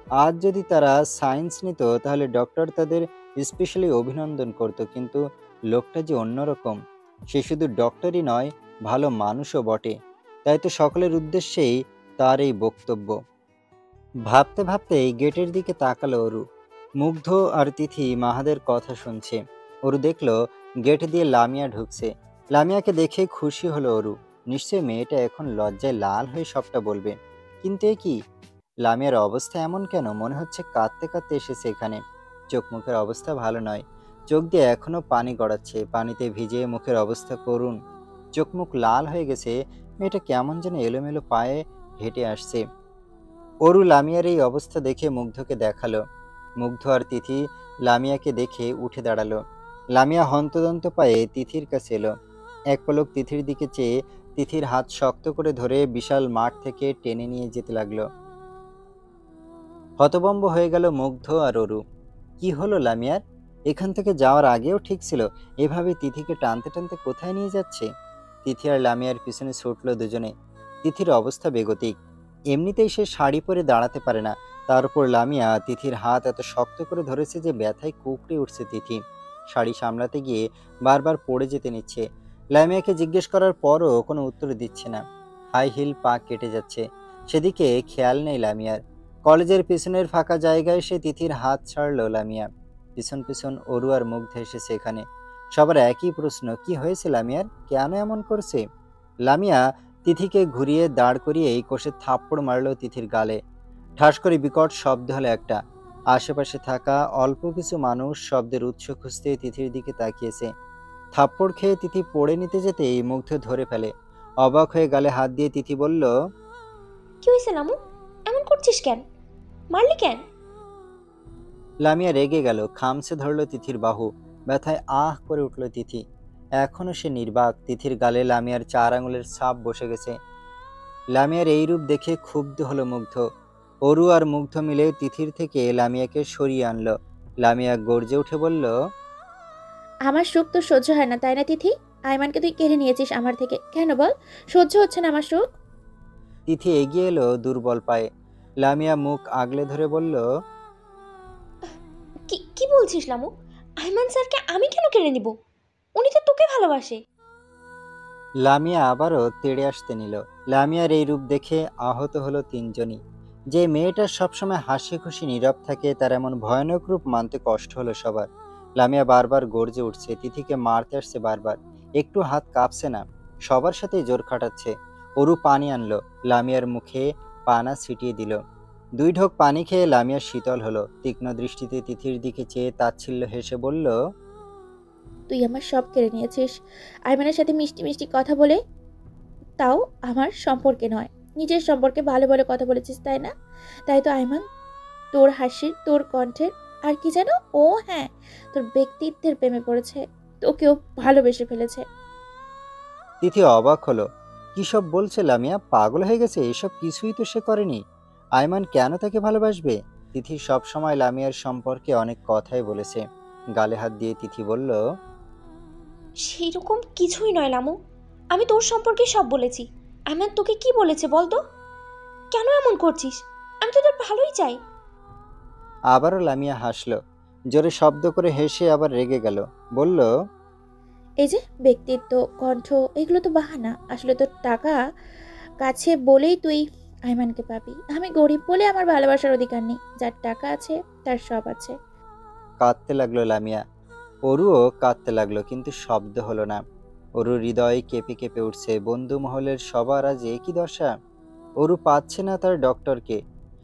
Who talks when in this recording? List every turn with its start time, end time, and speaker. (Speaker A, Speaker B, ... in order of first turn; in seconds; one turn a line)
Speaker A: 0.2-5.2
Speaker A: 5.7-6.8
Speaker A: 7.3-9.9
Speaker A: 10.5-13.2
Speaker A: 14.3-16.4
Speaker A: 17.0-28.2
Speaker A: 28.8-32.0
Speaker A: 32.5-37.8
Speaker A: 38.4-42.6
Speaker A: 43.6-46.0
Speaker A: 46.6-49.4
Speaker A: 50.0-52.1
Speaker A: 52.7-58.0
Speaker A: 60.0-61.8
Speaker A: 62.4-67.9
Speaker A: 68.5-70.3
Speaker A: 70.8-71.9
Speaker A: 72.5-79.0
Speaker A: 79.5-82.0
Speaker A: 82.5-85.0
Speaker A: 85.5-95.0
Speaker A: 95.5-98.6
Speaker A: 99.3-103.4
Speaker A: 104.0-105.6
Speaker A: 106.1-110.5
Speaker A: 111.2-113.9
Speaker A: 114.4-116.1
Speaker B: 117.2-117.8
Speaker B: 118.3-119.0
Speaker B: 119.7-120.2
Speaker A: 121.8-126.0
Speaker A: 126.6-130.2
Speaker A: 131.2-133.2
Speaker A: 133.9-138.7
Speaker C: 140.1-145.4
Speaker A: 146.5-148.1
Speaker A: 148.6-150.2
Speaker B: 152.3-155.3
Speaker B: 156.0-157.0
Speaker A: 158.4-163.0
Speaker A: 163.5-168.3
Speaker A: 168.8-178.4
Speaker A: 179.0-183.9
Speaker C: 185.3-186.5
Speaker C: 187.1-188.6
Speaker C: 189.6-193.3
Speaker C: 193.9-194.4
Speaker C: 195.1-201.8
Speaker A: 203.2-204.0
Speaker A: 204.6-207.8
Speaker A: 208.4-213.0
Speaker A: 213.6-214.8
Speaker B: 216.3-217.8
Speaker B: 218.3-221.4
Speaker B: 222.3-224.6
Speaker A: 225.9-227.0
Speaker A: 227.5-230.1
Speaker C: 231.2-234.8
Speaker C: 235.6-241.8
Speaker A: 242.6-243.6
Speaker A: 244.3-246.6
Speaker A: 247.2-250.9
Speaker A: 251.6-253.2